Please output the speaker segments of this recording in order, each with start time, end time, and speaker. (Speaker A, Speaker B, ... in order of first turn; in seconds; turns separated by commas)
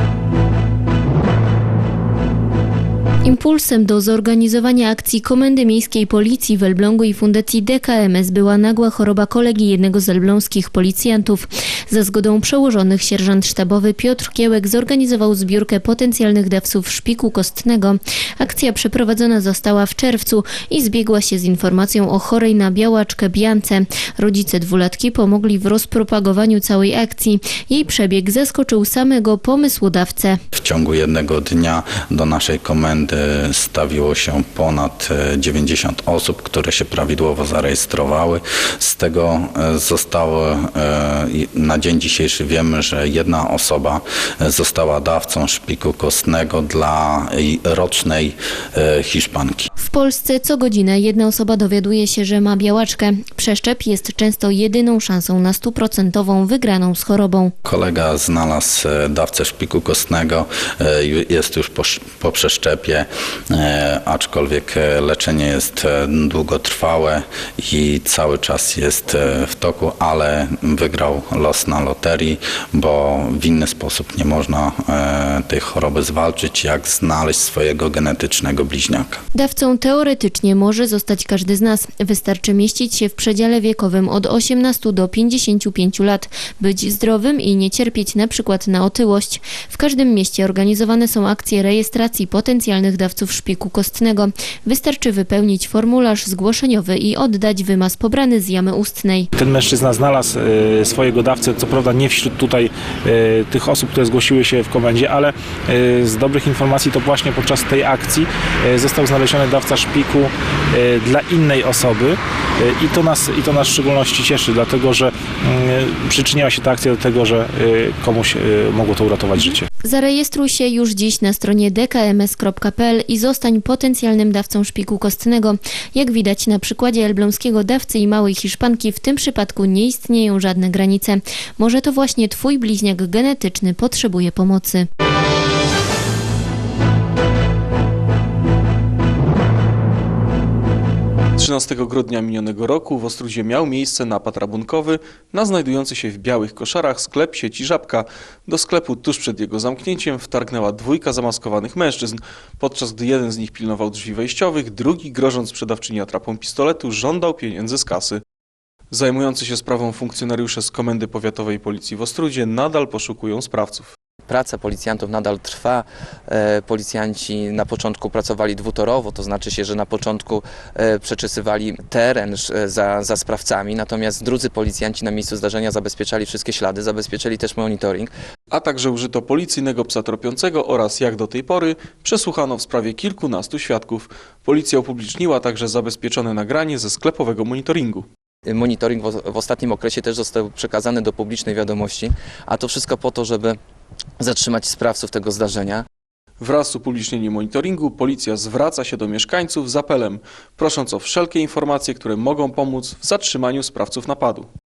Speaker A: 3.2-30.4, Speaker B: 30.5-49.7, Speaker A: 49.8-57.5, Speaker B: 57.6-79.2, Speaker A: 79.3-99.3, Speaker C: 99.3-119.7, Speaker A: 119.3-134.9, Speaker D: 141.4-158.2, Speaker D: 158.9-163.9, Speaker E: 164.3-178.1, Speaker D: 178.5-188.1, Speaker E: 188.4-193.6, Speaker E: 194.2-195.8, Speaker D: 196.4-204.5